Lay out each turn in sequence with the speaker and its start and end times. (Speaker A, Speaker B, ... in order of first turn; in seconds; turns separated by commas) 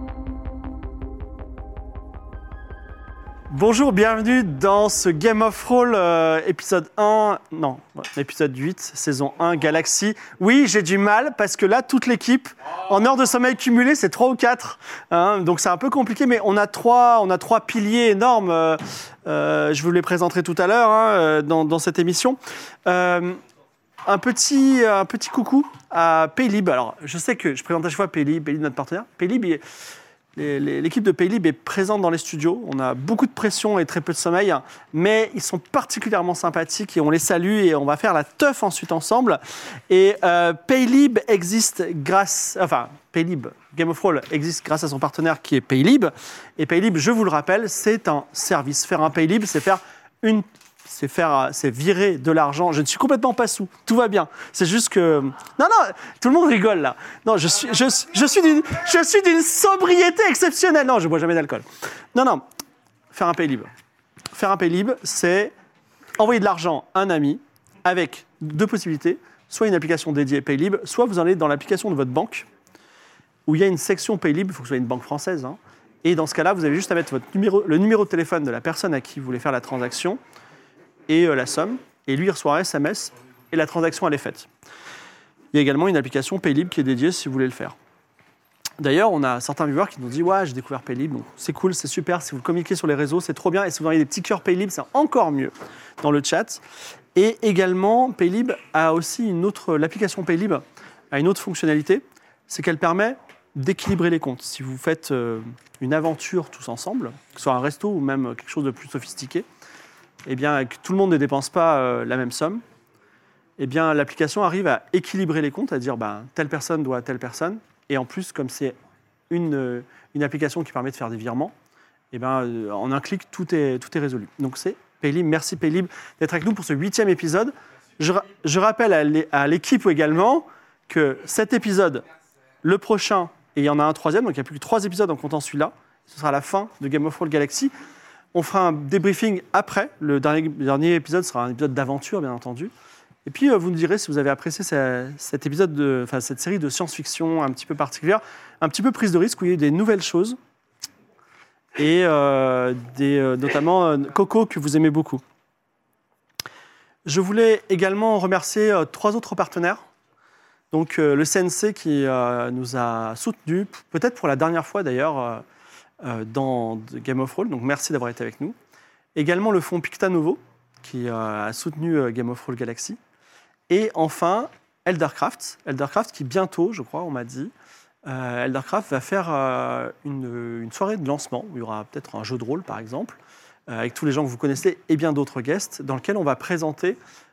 Speaker A: 3.5-23.4, Speaker A: 24.1-29.6, Speaker A: 30.4-62.4, Speaker A: 63.1-63.7, Speaker A: 64.3-65.5, Speaker A: 66.2-72.5, Speaker A: 73.5-80.2, Speaker A: 81.1-84.5, Speaker A: 85.5-87.7, Speaker A: 88.8-96.6, Speaker A: 97.1-109.4, Speaker A: 110.2-112.6, Speaker A: 113.6-118.8, Speaker A: 119.3-121.5, Speaker A: 122.1-132.1, Speaker A: 132.6-137.7, Speaker A: 138.3-142.7, Speaker A: 143.2-150.4, Speaker A: 151.8-155.2, Speaker A: 157.1-159.8, Speaker A: 160.7-165.4, Speaker A: 166.0-168.5, Speaker A: 169.1-173.0, Speaker A: 173.7-177.5, Speaker A: 178.0-187.0